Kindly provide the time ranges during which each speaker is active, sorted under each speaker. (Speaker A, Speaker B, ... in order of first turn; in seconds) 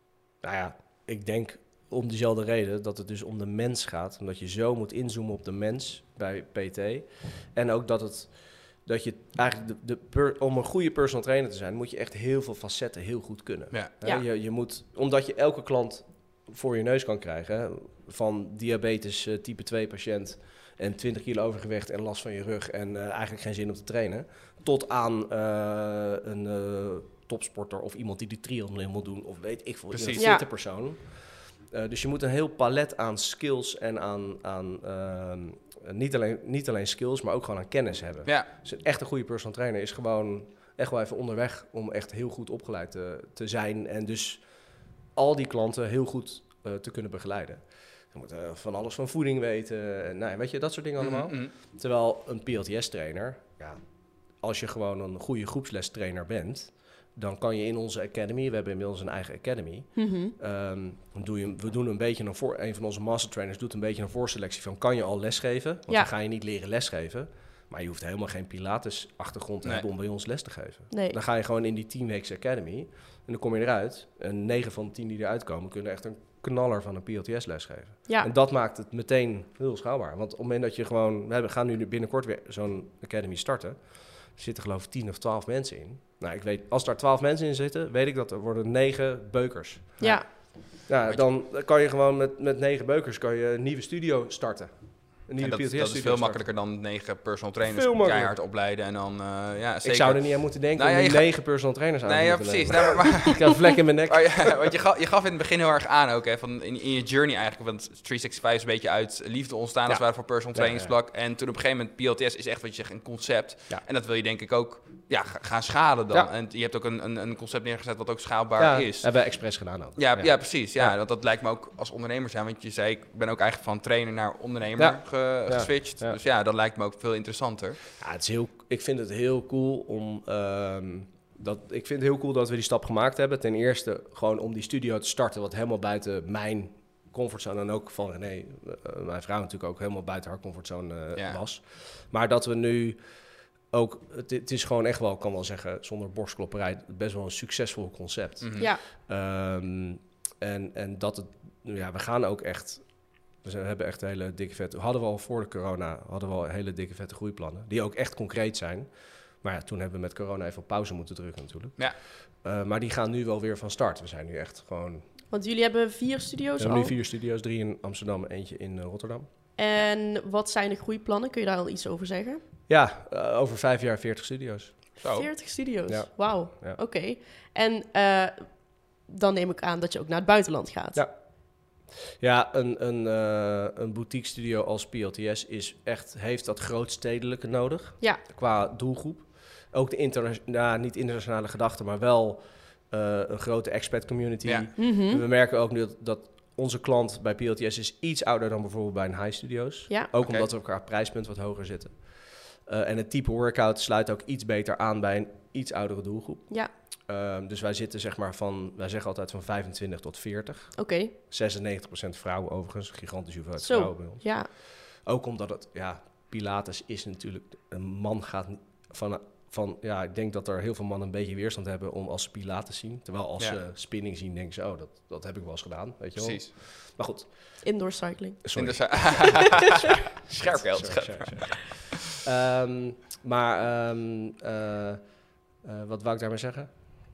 Speaker A: 0.4-96.4, 97.6-98.3, 99.8-104.5, 109.9-111.0, 118.6-121.0, 124.8-126.2, 128.0-143.0, 143.7-165.1, 166.6-169.3, 172.7-175.0, 175.9-176.8, 180.9-227.6, 228.4-229.6, 230.2-235.0, 235.6-236.7
Speaker B: 29.9-30.3, 51.0-51.5, 90.0-91.3, 95.4-127.8, 141.1-141.4, 148.4-148.7, 175.0-175.3, 194.4-194.7, 226.2-226.5, 228.6-229.7, 230.3-231.8
Speaker C: 30.2-30.4, 60.0-60.3, 70.9-71.2, 90.0-90.3, 165.3-166.9, 169.6-172.4, 175.0-181.0, 194.8-195.2, 210.8-211.1, 213.6-214.5, 227.6-229.2